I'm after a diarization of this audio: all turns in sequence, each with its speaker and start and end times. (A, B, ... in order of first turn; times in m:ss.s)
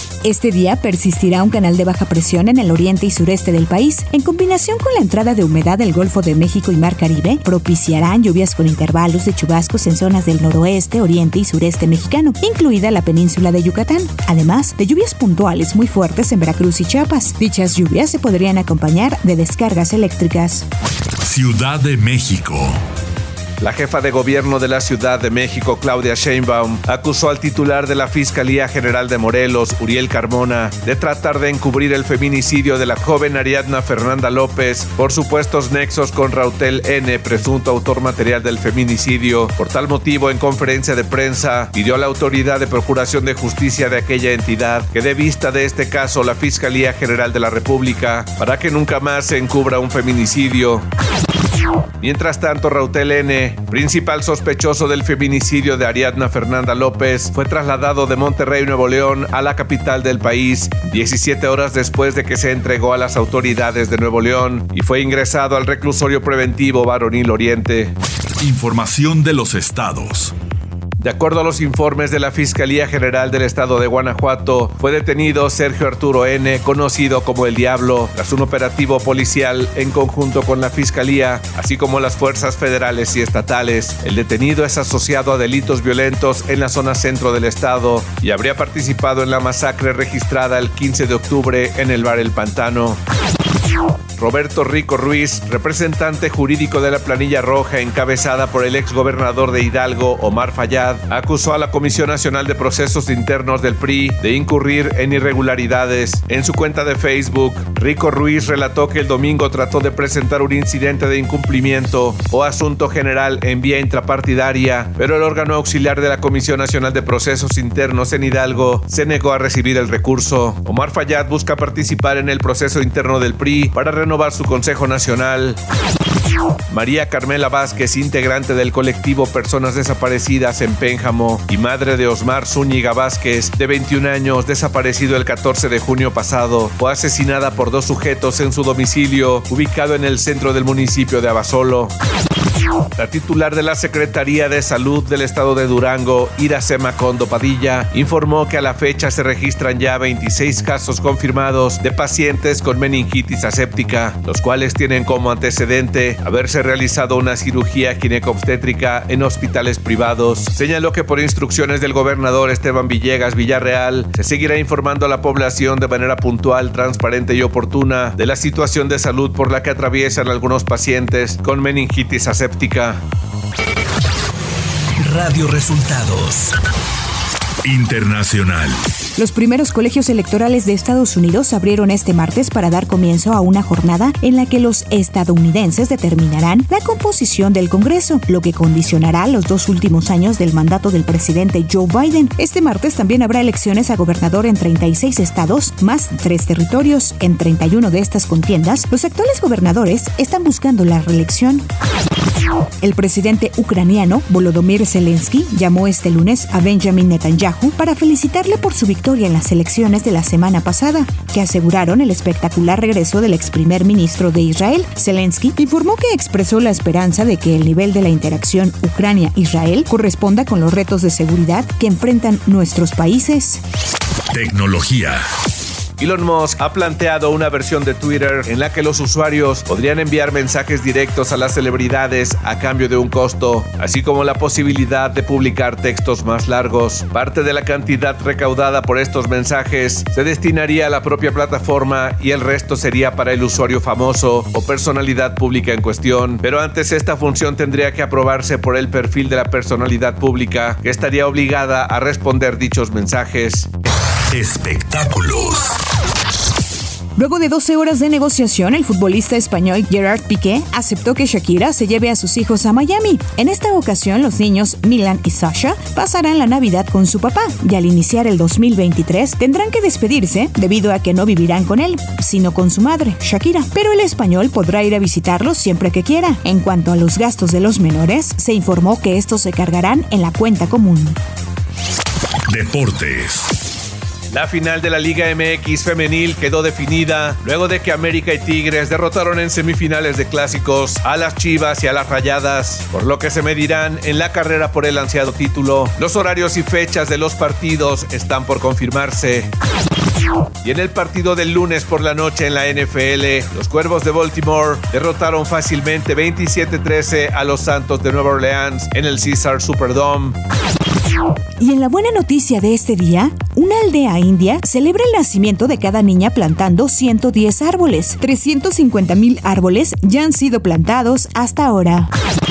0:00.2-0:20.6 A
0:21.2-0:22.8 B
0:23.6-0:50.8 C
0:52.0-1:07.9 C
1:08.4-1:10.3 B
1:11.0-1:33.0 C
1:34.2-2:05.6 C
2:06.7-2:21.9 C
2:23.0-2:53.0 C
2:55.0-2:56.5 C
2:57.6-2:58.8 B
2:59.2-3:21.6 A
3:22.8-3:43.6 A
3:44.3-3:45.2 B
3:46.0-4:13.7 C
4:14.3-4:15.8 B
4:17.2-4:41.2 A
4:42.5-4:43.5 B
4:44.3-4:59.5 C
5:00.6-5:10.4 C
5:11.6-5:22.1 A